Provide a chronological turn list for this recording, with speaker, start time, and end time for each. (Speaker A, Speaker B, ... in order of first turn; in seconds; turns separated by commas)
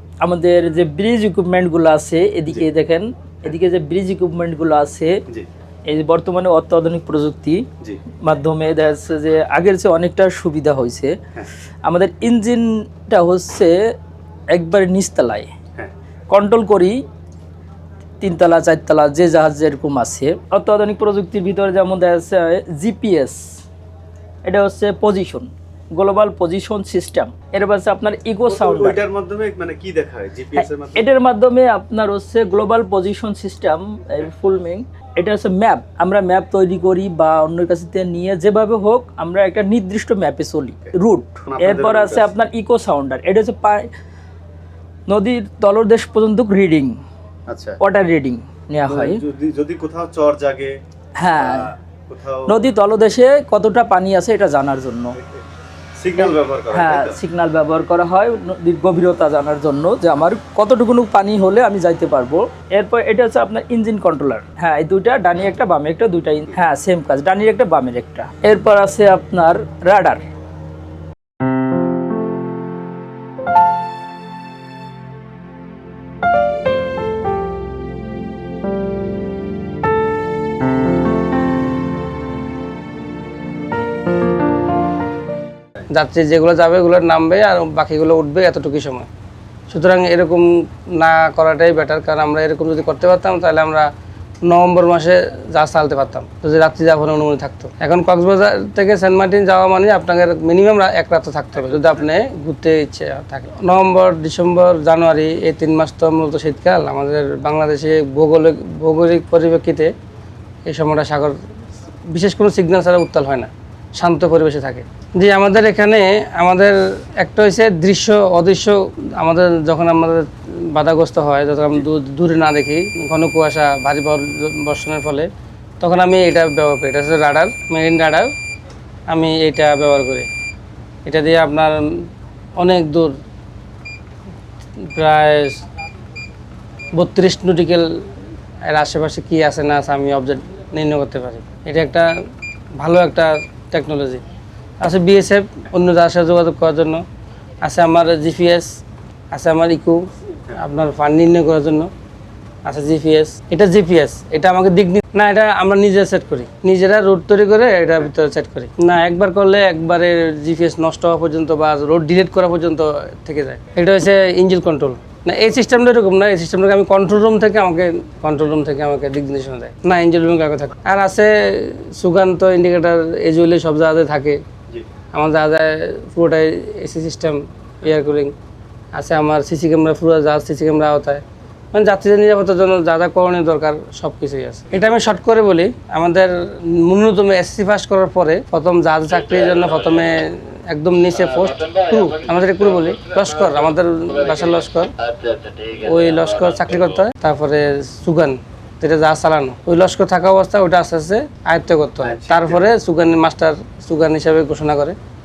Speaker A: 0.2-5.2, Speaker A: 5.9-7.7, Speaker A: 8.2-11.2, Speaker A: 11.8-13.8, Speaker A: 14.5-15.5, Speaker A: 16.3-17.0, Speaker A: 18.2-23.4, Speaker A: 24.4-29.0, Speaker B: 28.5-31.1, Speaker A: 30.6-43.9, Speaker B: 41.5-42.3, Speaker A: 45.1-46.9, Speaker B: 47.5-47.8, Speaker A: 47.8-49.2, Speaker B: 48.9-50.7, Speaker A: 51.2-51.7, Speaker B: 51.3-52.6, Speaker A: 52.5-55.1, Speaker B: 56.0-57.2, Speaker A: 56.2-70.2, Speaker C: 85.9-89.1, Speaker C: 89.7-93.9, Speaker C: 94.4-109.9, Speaker C: 110.7-111.3, Speaker C: 112.1-125.3, Speaker C: 125.8-128.3, Speaker C: 129.1-130.3, Speaker C: 131.1-131.8, Speaker C: 132.6-133.1, Speaker C: 134.9-135.6, Speaker C: 136.9-137.8, Speaker C: 138.7-142.1, Speaker C: 142.8-144.2, Speaker C: 144.8-147.0, Speaker C: 147.6-148.7, Speaker C: 149.3-151.9, Speaker C: 152.6-174.4, Speaker C: 175.1-178.3, Speaker C: 178.9-194.9, Speaker C: 195.7-205.0, Speaker B: 202.0-202.6